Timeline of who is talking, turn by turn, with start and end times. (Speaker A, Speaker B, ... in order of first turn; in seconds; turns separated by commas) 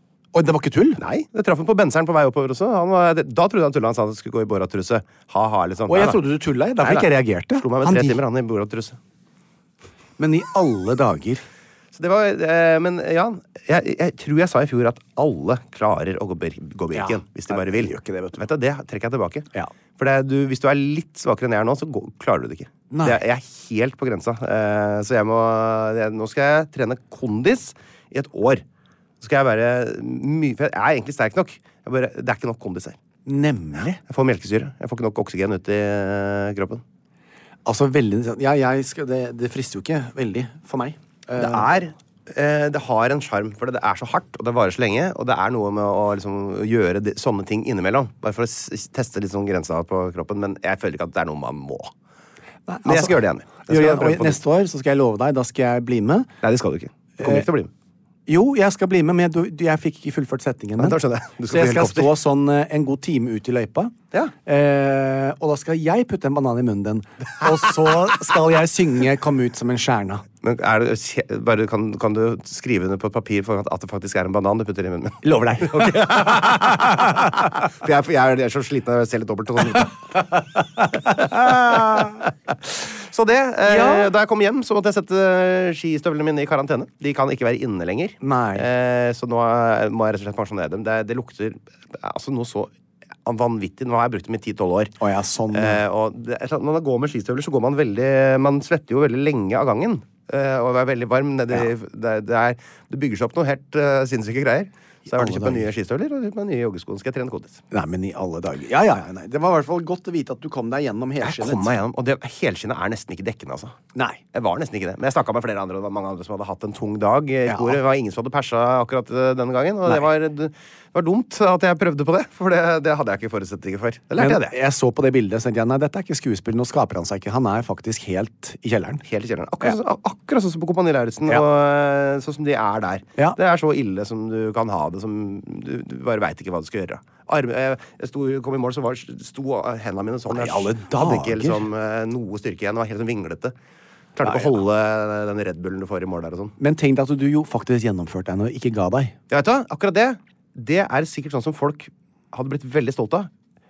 Speaker A: 0.3-1.0, Speaker B: 1.0-6.2, Speaker A: 5.9-8.2, Speaker B: 6.8-9.0, Speaker A: 10.2-11.4, Speaker B: 11.9-28.6, Speaker A: 16.9-18.4, Speaker A: 22.9-23.2, Speaker B: 29.2-33.0, Speaker A: 33.2-34.0, Speaker B: 34.1-36.8, Speaker A: 37.6-41.7, Speaker B: 41.4-51.9, Speaker A: 52.7-56.3, Speaker B: 52.8-54.4, Speaker B: 56.4-57.7, Speaker A: 57.2-57.5, Speaker A: 58.3-63.9, Speaker B: 60.8-62.1, Speaker A: 64.5-70.2, Speaker B: 70.4-80.3, Speaker A: 75.2-77.5, Speaker A: 80.8-82.1, Speaker B: 80.9-92.7, Speaker A: 83.7-84.1, Speaker A: 88.2-88.7, Speaker B: 93.2-94.9, Speaker A: 95.0-95.8, Speaker B: 95.5-107.6, Speaker A: 105.1-105.7, Speaker A: 107.7-111.7, Speaker B: 111.2-113.8, Speaker B: 114.3-124.5, Speaker A: 117.5-117.8, Speaker A: 124.2-129.0, Speaker B: 129.0-143.5, Speaker A: 140.3-141.7, Speaker B: 144.2-146.5, Speaker A: 144.2-144.5, Speaker A: 146.6-149.1, Speaker B: 149.3-153.3